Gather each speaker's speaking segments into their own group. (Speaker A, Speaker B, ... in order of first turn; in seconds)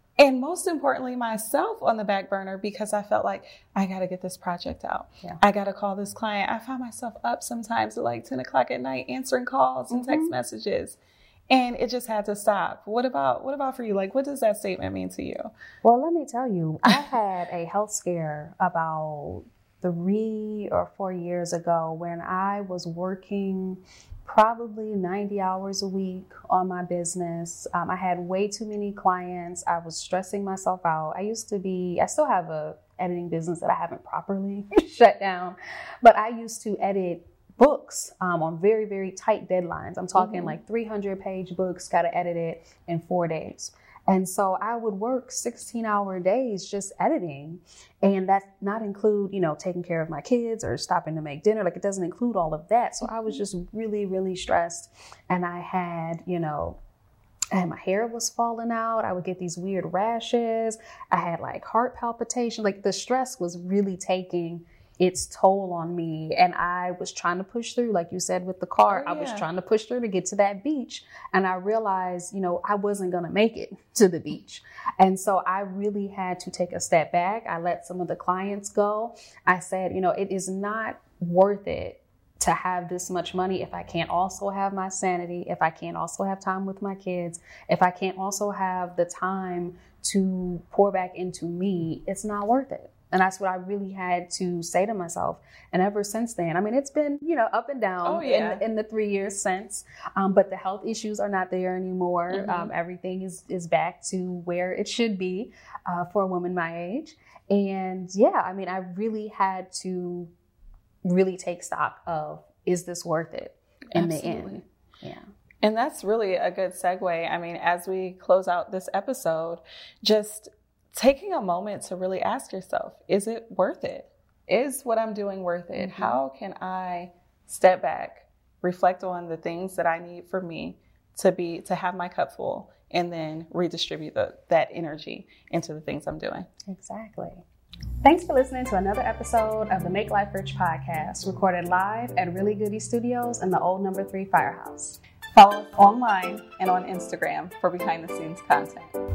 Speaker A: 0.2-15.5, 40.1-40.6, 68.9-69.5, 98.0-98.6, 102.3-102.7, 113.9-114.6, 115.6-136.4, 145.3-148.9
Speaker B: 9.9-10.3, 15.8-56.8, 57.5-110.3, 111.0-115.2, 125.8-126.2, 136.7-137.4, 138.0-145.0